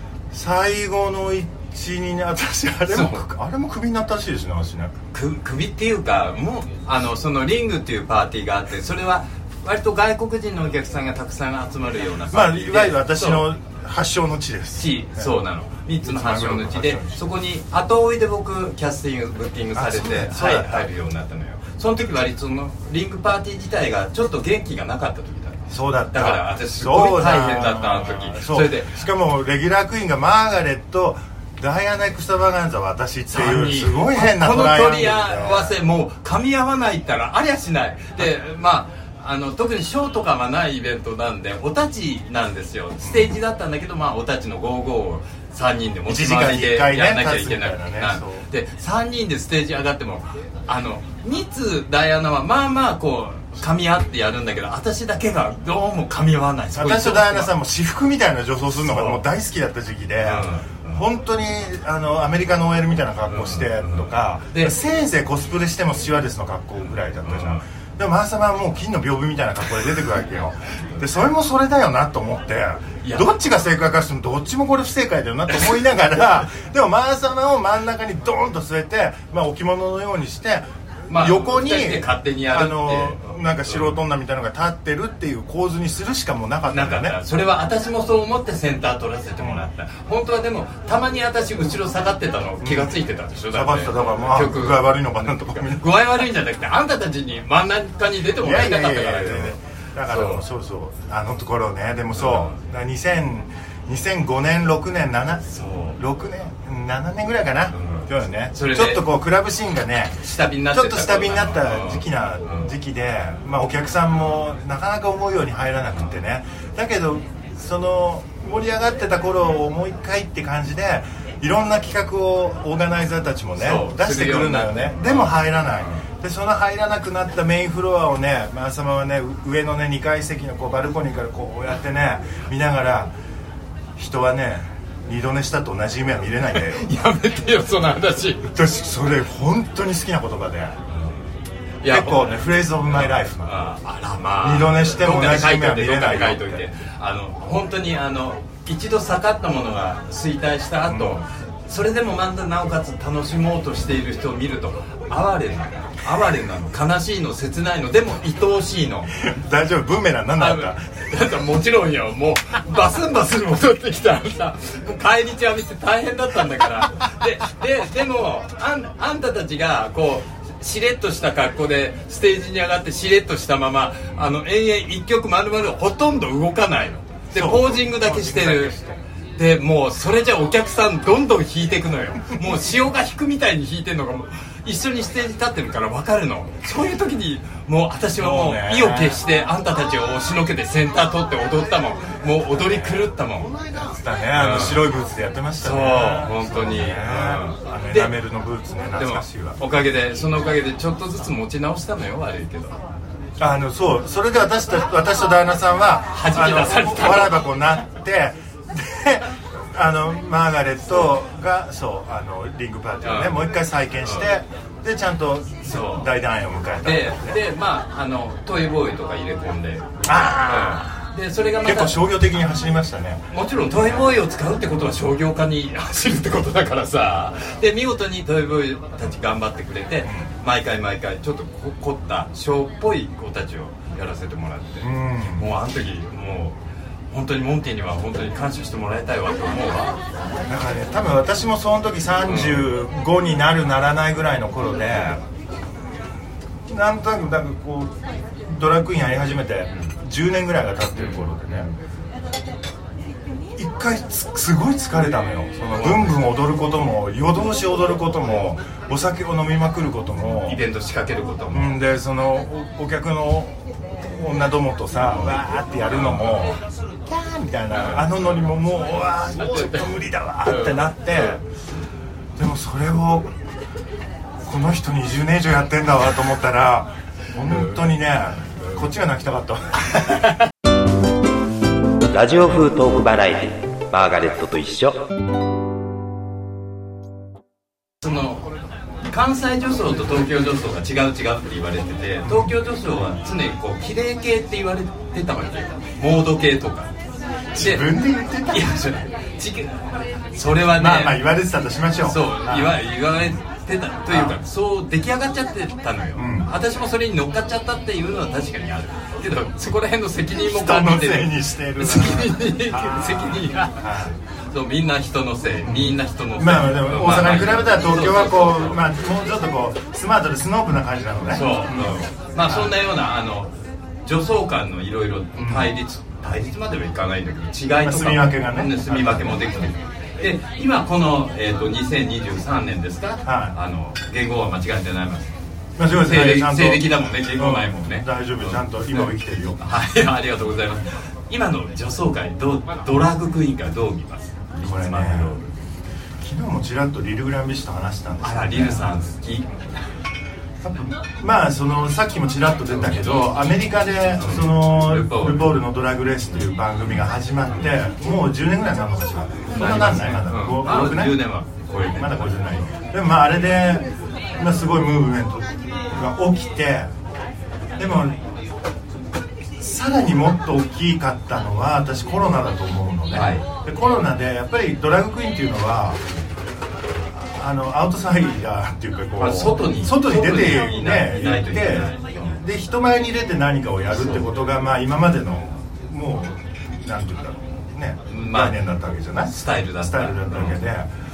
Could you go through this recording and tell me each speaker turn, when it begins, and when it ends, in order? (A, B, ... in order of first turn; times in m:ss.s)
0:00.3-0:05.0 A
0:02.9-0:03.2 B
0:05.1-0:13.4 B
0:12.3-0:15.3 A
0:14.8-0:29.0 B
0:16.0-0:17.3 A
0:19.8-0:20.9 A
0:25.7-0:35.8 A
0:33.3-0:57.5 B
0:43.0-0:43.3 A
0:46.1-0:48.5 A
0:56.8-1:27.2 A
0:58.8-0:59.2 B
1:00.2-1:01.0 B
1:03.3-1:04.7 B
1:07.3-1:07.6 B
1:13.0-1:13.3 B
1:21.1-1:24.0 B
1:26.7-1:34.9 B
1:32.6-1:33.0 A
1:33.5-1:35.9 A
1:35.6-1:40.4 B
1:38.4-2:13.1 A
1:42.2-1:42.6 B
1:45.5-1:46.0 B
1:47.7-1:49.0 B
1:50.2-1:52.7 B
2:03.6-2:06.0 B
2:14.0-2:17.0 A
2:16.6-2:18.5 B
2:18.5-2:20.8 A
2:21.8-2:22.3 B
2:21.9-2:23.7 A
2:22.9-2:39.1 B
2:24.4-2:26.6 A
2:30.9-2:31.2 A
2:39.1-2:41.0 A
2:40.4-2:58.8 B
2:57.3-2:59.0 A
2:59.4-3:13.6 B
3:08.2-3:09.2 A
3:12.5-3:13.1 A
3:13.7-3:19.6 A
3:14.3-3:14.9 B
3:15.6-3:18.1 B
3:19.0-3:22.8 B
3:23.4-3:37.4 A
3:26.1-3:27.5 B
3:33.0-3:33.4 B
3:35.7-3:36.1 B
3:36.8-3:42.0 B
3:40.0-3:41.0 A
3:41.6-3:43.3 A
3:43.3-3:56.6 B
3:43.8-3:44.1 A
3:54.8-3:55.5 A
3:57.1-4:00.0 B
4:00.5-4:05.2 A
4:02.2-4:02.7 B
4:06.6-4:11.7 A
4:11.0-4:11.7 B
4:13.6-4:20.6 A
4:15.8-4:16.2 B
4:20.4-4:21.8 B
4:21.5-4:31.4 A
4:25.9-4:26.4 B
4:27.7-4:28.1 B
4:29.4-4:29.9 B
4:30.4-4:31.4 B
4:32.4-4:33.3 A
4:34.4-4:40.4 A
4:42.1-4:45.1 C
4:48.0-4:48.5 B
4:49.0-4:56.9 B
4:52.2-4:52.5 A
4:57.5-4:58.8 A
4:57.6-4:57.9 B
4:58.5-5:01.2 B
5:00.7-5:03.3 A
5:02.0-5:13.9 B
5:04.1-5:04.4 A
5:06.2-5:06.5 A
5:10.3-5:14.2 A
5:14.5-5:18.8 B
5:15.6-5:22.7 A
5:21.3-5:35.3 B
5:25.4-5:25.7 A
5:27.8-5:29.6 A
5:33.2-5:33.6 A
5:35.8-5:39.6 A
5:36.0-5:39.1 B
5:39.6-5:45.5 B
5:44.6-5:45.4 A
5:46.2-5:49.0 A
5:48.2-5:49.5 B
5:50.6-6:01.2 A
5:54.2-5:55.6 B
5:59.5-6:02.6 B
6:01.8-6:06.9 A
6:07.8-6:08.2 A
6:09.6-6:16.0 A
6:13.1-6:13.4 B
6:17.1-6:30.9 A
6:19.2-6:22.4 B
6:23.9-6:24.2 B
6:28.1-6:28.6 B
6:29.3-6:30.6 B